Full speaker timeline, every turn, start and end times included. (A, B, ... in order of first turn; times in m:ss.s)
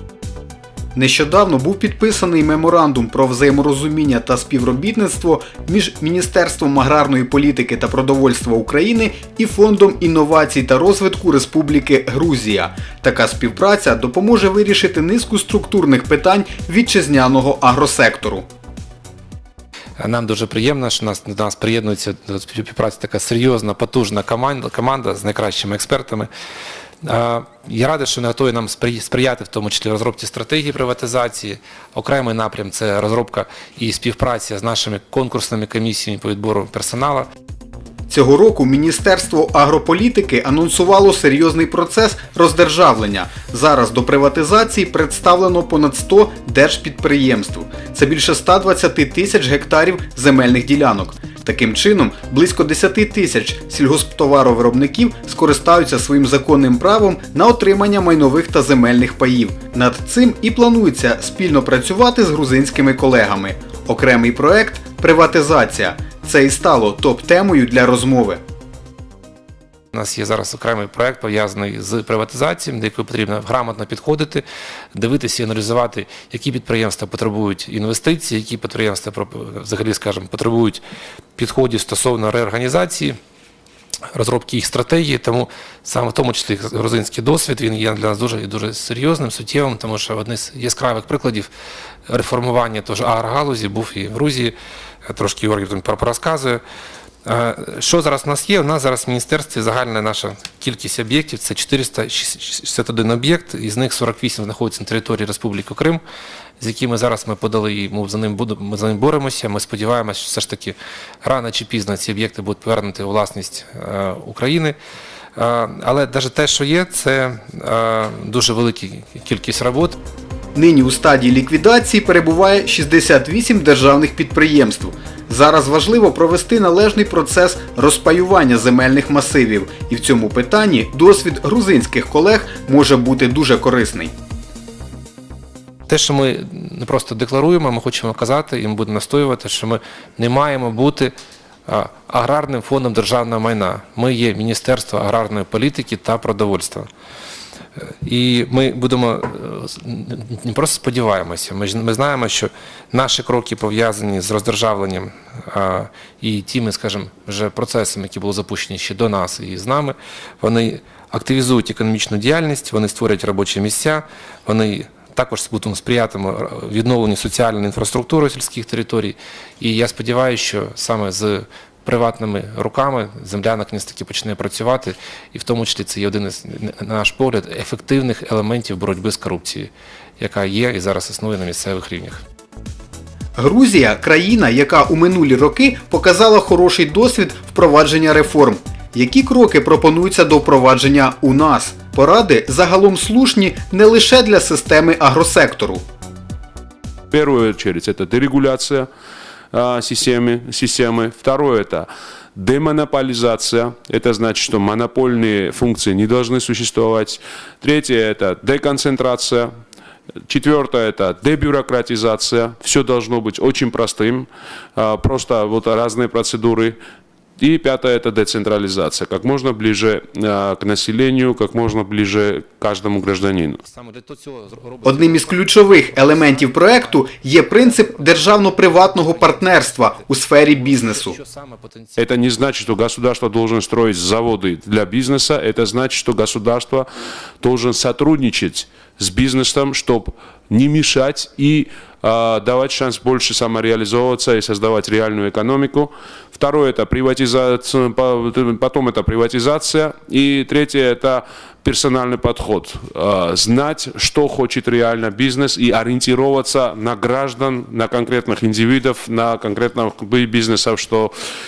0:01.0-0:18.4 A
0:20.0-0:26.3 B
0:27.0-0:37.3 B
0:38.1-1:08.4 A
1:09.9-1:20.8 B
1:21.4-1:23.2 B
1:24.1-1:31.5 B
1:32.1-1:34.5 B
1:35.1-1:36.6 B
1:37.2-1:46.0 B
1:46.6-1:54.8 B
1:55.4-2:00.0 B
2:00.5-2:14.1 A
2:15.9-2:21.1 B
2:21.7-2:26.9 B
2:28.0-3:02.2 B
3:03.4-3:15.8 A
3:17.1-3:18.9 C
3:19.5-3:29.5 C
3:30.3-3:36.8 C
3:37.4-3:43.6 C
3:43.6-3:52.0 B
3:44.8-3:51.2 A
3:52.0-3:56.9 C
3:57.4-4:21.1 C